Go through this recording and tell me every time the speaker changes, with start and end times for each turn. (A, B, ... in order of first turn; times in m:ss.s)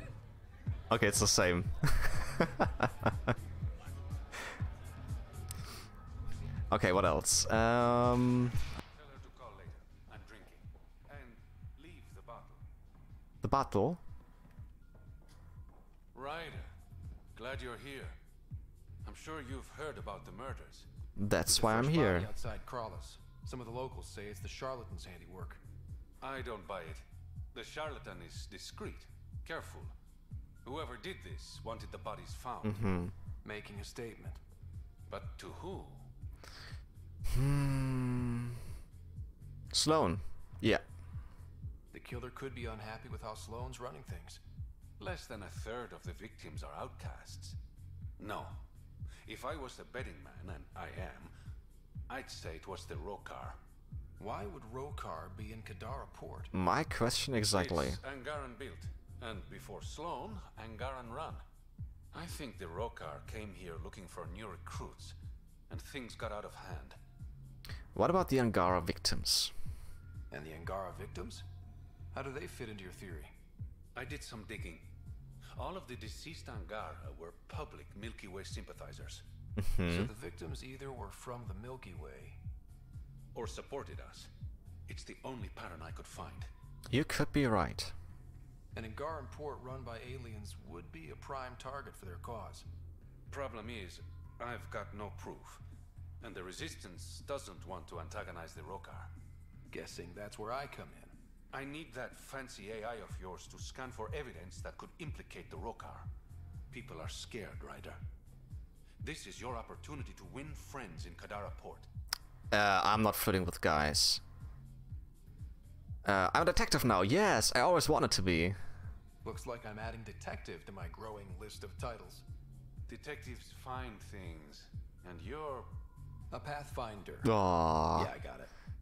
0:00.9-0:03.3 A
0:06.7-0:08.6 A
0:08.8-0:12.6 B
0:13.4-0:14.0 A
0:16.1-0:16.7 B
0:17.4-0:18.2 B
0:19.0-0:20.9 B
0:21.2-0:22.3 A
0:21.5-0:25.6 C
0:26.2-0:29.9 B
0:30.6-0:32.8 B
0:32.6-0:33.1 A
0:33.4-0:34.4 C
0:35.1-0:36.1 B
0:37.3-0:38.6 A
0:39.7-0:40.8 A
0:41.9-0:44.4 C
0:45.0-0:47.6 B
0:48.2-0:48.6 B
0:49.3-0:51.3 B
0:52.1-0:53.6 B
0:54.2-0:56.5 C
0:56.5-0:58.0 A
0:57.5-1:01.4 B
1:02.1-1:05.1 B
1:05.7-1:07.0 B
1:08.0-1:09.5 A
1:10.3-1:11.4 C
1:12.1-1:13.4 C
1:14.0-1:14.9 B
1:15.6-1:19.2 B
1:19.6-1:20.1 A
1:19.9-1:22.4 C
1:23.3-1:24.3 B
1:24.9-1:26.5 B
1:26.9-1:27.9 A
1:28.7-1:32.7 C
1:33.3-1:35.6 B
1:36.2-1:39.1 B
1:39.7-1:41.1 C
1:41.5-1:46.1 B
1:46.7-1:48.0 B
1:49.0-1:51.9 B
1:52.5-1:54.2 A
1:56.0-1:58.6 A
1:59.2-2:02.2 C
2:02.9-2:05.7 B
2:06.3-2:07.3 C
2:07.2-2:08.1 A
2:08.0-2:08.5 C